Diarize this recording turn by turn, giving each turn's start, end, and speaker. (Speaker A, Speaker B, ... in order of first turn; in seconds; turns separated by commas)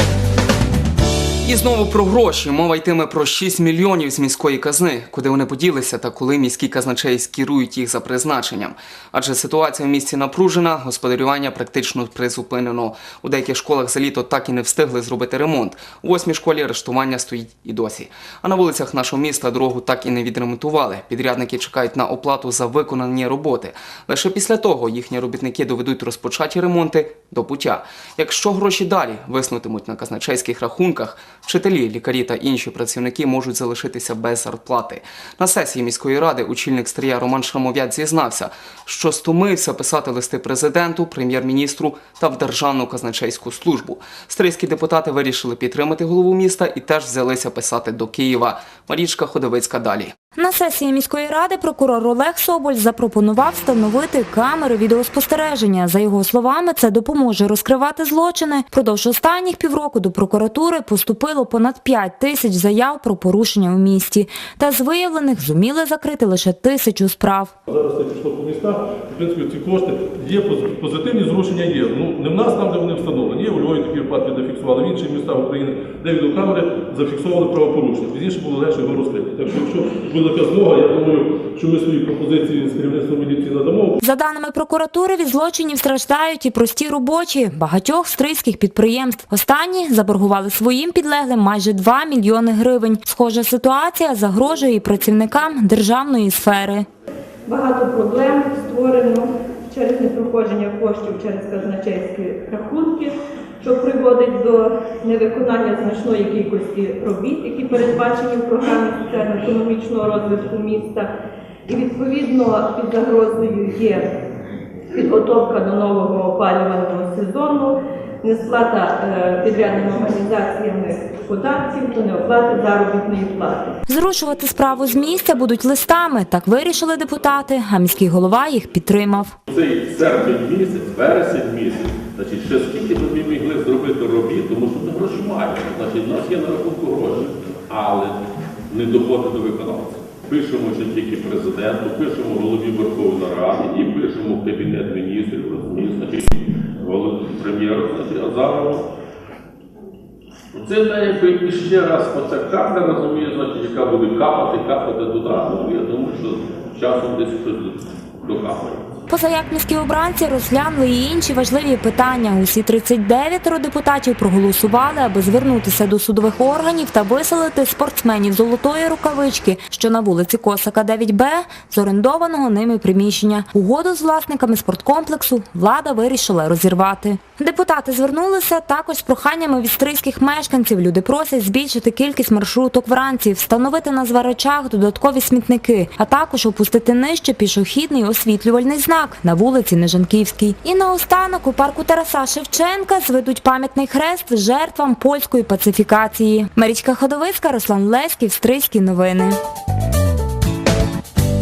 Speaker A: 1.4-50.1, Speaker B: 50.4-67.5, Speaker C: 67.7-84.0, Speaker B: 84.0-96.9, Speaker D: 97.5-111.1, Speaker D: 111.7-114.1, Speaker D: 114.9-123.7, Speaker B: 123.9-129.3, Speaker E: 129.5-138.2, Speaker E: 138.7-148.8, Speaker E: 150.5-158.8, Speaker B: 159.1-199.4